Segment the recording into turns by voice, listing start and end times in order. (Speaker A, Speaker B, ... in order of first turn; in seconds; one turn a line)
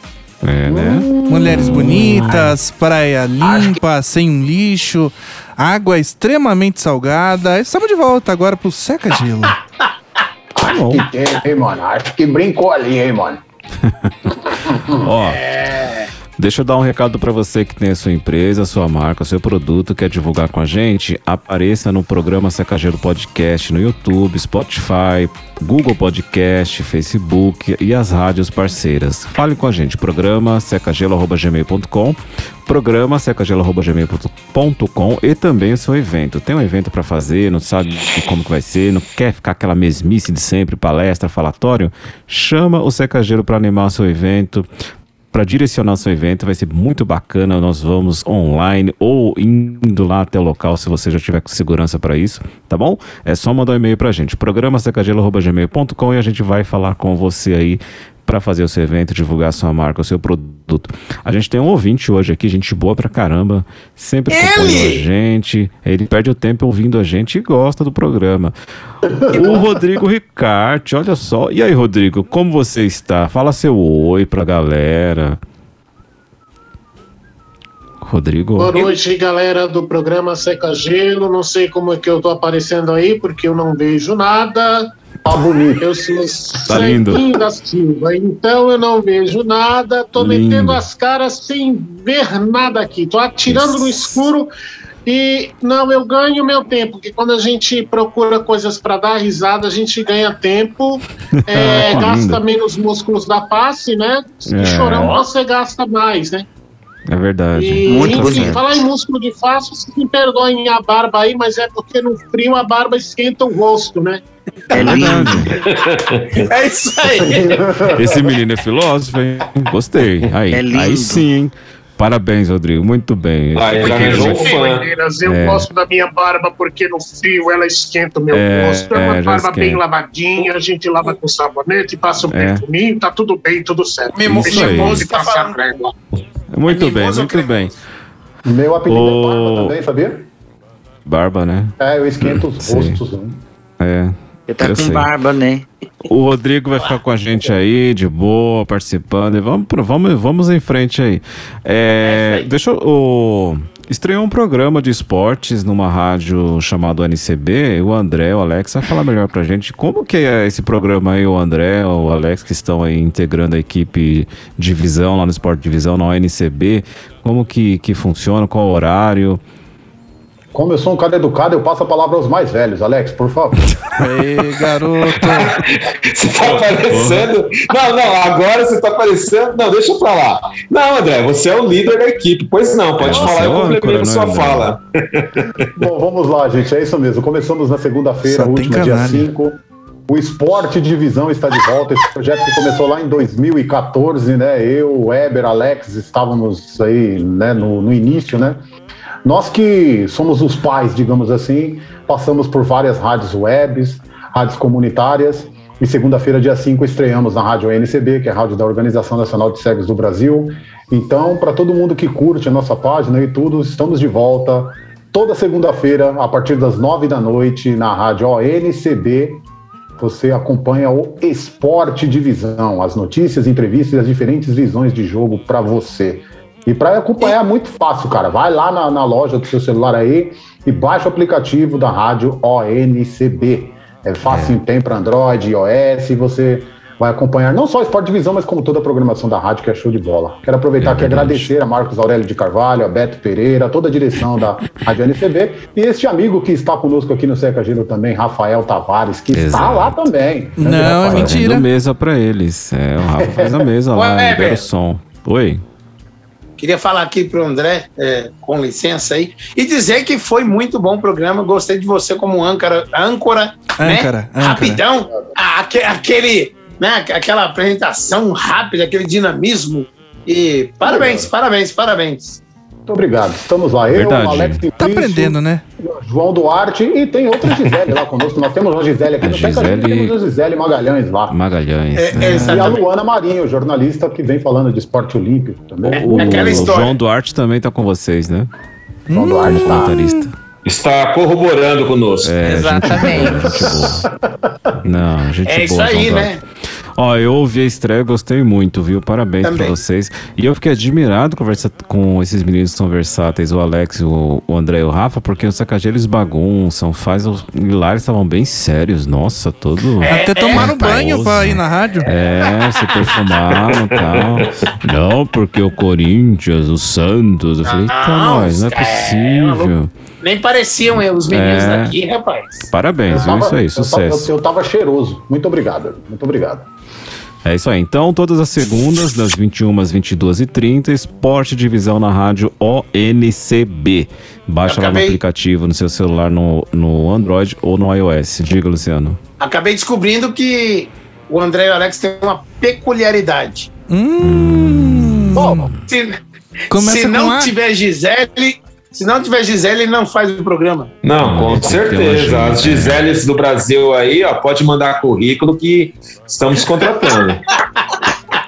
Speaker A: 0.4-2.5
Speaker B: 0.6-2.3
Speaker C: 1.2-9.6
Speaker B: 3.4-3.8
Speaker B: 10.6-13.4
Speaker A: 10.6-11.1
Speaker A: 13.8-14.1
Speaker B: 14.7-15.0
Speaker A: 15.0-15.4
Speaker D: 15.1-16.1
Speaker A: 16.4-44.7
Speaker A: 45.3-68.5
Speaker D: 64.3-65.1
Speaker B: 69.1-69.6
Speaker D: 69.3-69.7
Speaker A: 69.3-75.4
Speaker A: 78.0-78.9
Speaker E: 78.6-84.9
Speaker B: 85.2-85.8
Speaker E: 85.8-94.5
Speaker A: 86.6-87.3
Speaker A: 90.1-90.8
Speaker A: 93.5-94.2
Speaker E: 95.0-106.5
Speaker A: 101.4-102.4
Speaker A: 104.5-105.2
Speaker A: 107.1-108.7
Speaker E: 107.5-114.2
Speaker D: 114.7-115.1
Speaker F: 114.7-115.5
Speaker A: 114.7-115.5
Speaker G: 115.5-116.5
Speaker D: 116.4-117.8
Speaker B: 117.1-118.2
Speaker A: 117.9-124.5
Speaker F: 120.5-121.3
Speaker G: 123.5-124.9
Speaker E: 123.9-135.9
Speaker A: 125.2-125.7
Speaker A: 128.3-129.8
Speaker A: 132.3-132.6
Speaker D: 134.1-135.6
Speaker A: 134.3-135.1
Speaker A: 136.5-137.7
Speaker D: 136.7-137.7
Speaker B: 138.4-140.3
Speaker A: 138.9-139.7
Speaker A: 141.0-143.0
Speaker B: 141.8-143.4
Speaker A: 143.8-145.1
Speaker F: 144.5-145.7
Speaker A: 146.1-169.4
Speaker D: 152.0-152.5
Speaker B: 170.5-173.7
Speaker C: 174.0-175.6
Speaker G: 175.2-185.7
Speaker A: 176.8-177.3
Speaker A: 183.0-184.7
Speaker B: 185.8-198.6
Speaker C: 188.3-189.3
Speaker B: 199.2-219.4
Speaker B: 220.0-251.4
Speaker A: 234.2-234.6
Speaker A: 240.8-241.5
Speaker A: 249.3-250.0
Speaker C: 250.6-251.7
Speaker A: 250.6-255.6
Speaker B: 253.2-253.7
Speaker D: 253.9-254.7
Speaker D: 256.6-272.4
Speaker C: 263.8-264.8
Speaker B: 270.8-271.3
Speaker B: 272.9-281.4
Speaker A: 273.9-274.6
Speaker C: 274.8-275.6
Speaker A: 279.2-280.1
Speaker A: 281.3-282.5
Speaker D: 281.9-282.9
Speaker C: 282.2-282.7
Speaker B: 282.4-286.9
Speaker A: 285.9-288.5
Speaker D: 285.9-287.0
Speaker C: 289.1-290.3
Speaker B: 289.1-289.9
Speaker A: 289.3-290.3
Speaker G: 290.6-293.1
Speaker A: 292.2-294.1
Speaker F: 292.4-293.4
Speaker B: 292.8-294.6
Speaker A: 294.8-296.3
Speaker D: 295.4-296.4
Speaker A: 297.0-319.9
Speaker D: 299.4-299.8
Speaker D: 310.0-311.0
Speaker C: 310.1-312.2
Speaker D: 312.1-312.6
Speaker D: 317.6-322.7
Speaker A: 321.2-322.0
Speaker A: 322.7-324.3
Speaker B: 323.1-326.7
Speaker A: 327.4-339.2
Speaker D: 334.6-335.2
Speaker D: 339.4-343.7
Speaker C: 343.9-345.6
Speaker A: 344.2-345.8
Speaker B: 345.3-345.7
Speaker D: 345.9-346.2
Speaker C: 346.7-347.5
Speaker D: 346.7-350.9
Speaker G: 351.0-357.4
Speaker A: 351.2-353.1